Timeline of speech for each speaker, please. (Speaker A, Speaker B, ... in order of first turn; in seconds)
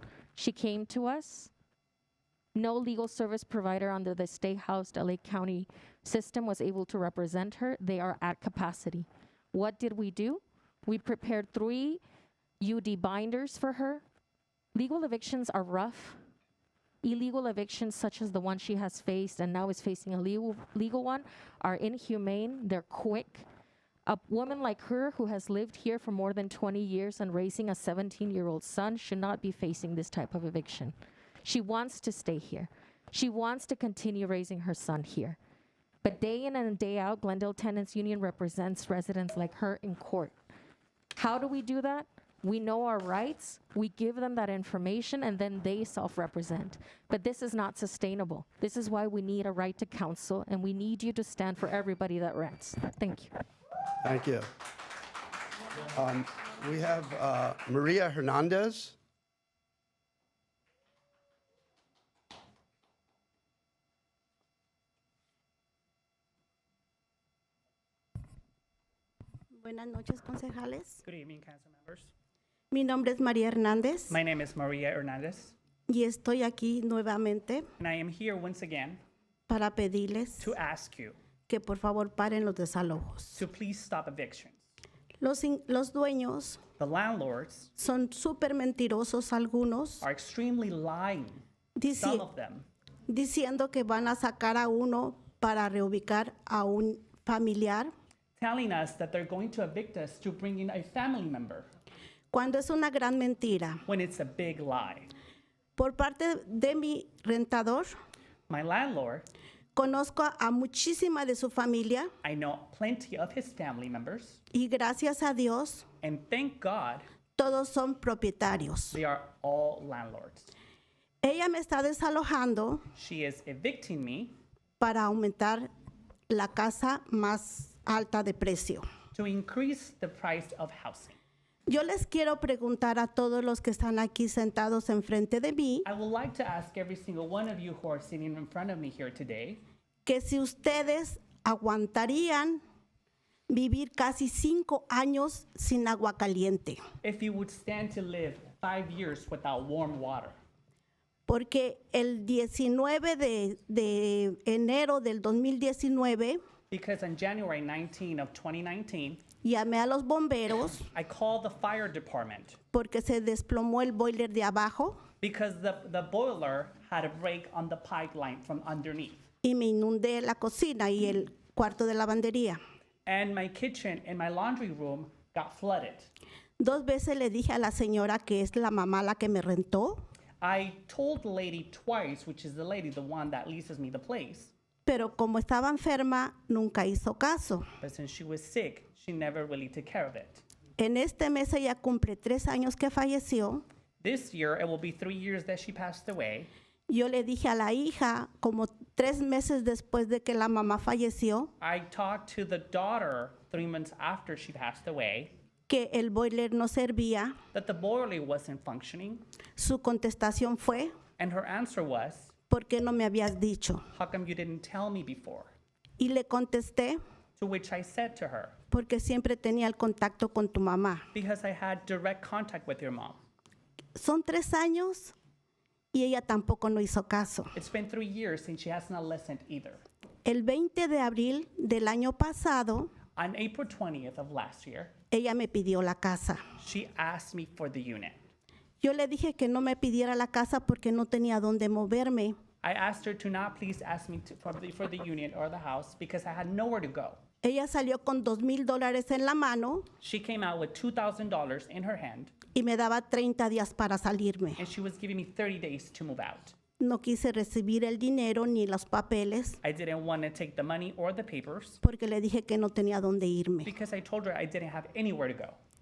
Speaker A: 0.3-1.5, 2.5-12.0, 12.6-14.0, 14.7-16.2, 17.0-23.5, 24.1-35.4, 36.0-40.4, 41.2-53.3
Speaker B: 54.0-54.5, 55.9-59.0
Speaker C: 69.5-71.0, 72.7-74.2, 75.9-77.7, 79.5-80.5, 81.5-83.5, 85.2-86.6, 87.8-90.1, 91.8-92.3, 93.1-97.9, 102.3-103.8, 105.8-107.9, 109.8-112.1, 114.5-115.9, 117.4-119.0, 121.2-122.8, 124.8-125.7, 126.3-128.8, 131.7-135.9, 140.1-142.6, 143.5-146.8, 151.3-156.4, 159.4-160.9, 162.7-165.0, 169.4-172.6, 176.6-180.0, 184.9-187.7, 190.8-193.6, 196.9-201.5, 205.7-207.3, 209.6-210.9, 212.5-213.8, 216.0-217.0, 218.7-221.1, 224.0-225.1, 225.9-227.5, 230.2-232.9, 235.1-236.4, 238.8-242.4, 247.4-249.9, 252.5-254.7, 256.8-259.6, 261.8-263.7
Speaker D: 71.0-72.1, 74.1-75.6, 77.8-79.0, 80.4-81.2, 83.4-84.6, 86.8-87.7, 90.0-91.4, 92.0-92.7, 98.4-101.7, 103.9-105.1, 108.5-109.3, 112.2-114.4, 116.0-117.0, 118.9-120.5, 123.0-124.3, 129.1-131.2, 135.8-139.6, 147.0-150.3, 156.7-159.2, 160.9-162.6, 165.2-169.2, 173.1-176.1, 180.4-184.5, 187.8-190.4, 194.0-196.5, 201.6-205.3, 207.5-209.2, 211.2-212.3, 213.9-215.5, 217.4-218.6, 221.1-223.2, 227.6-229.8, 233.2-234.9, 236.6-238.2, 242.6-247.2, 250.0-252.3, 254.6-256.5, 259.6-261.8, 263.6-265.6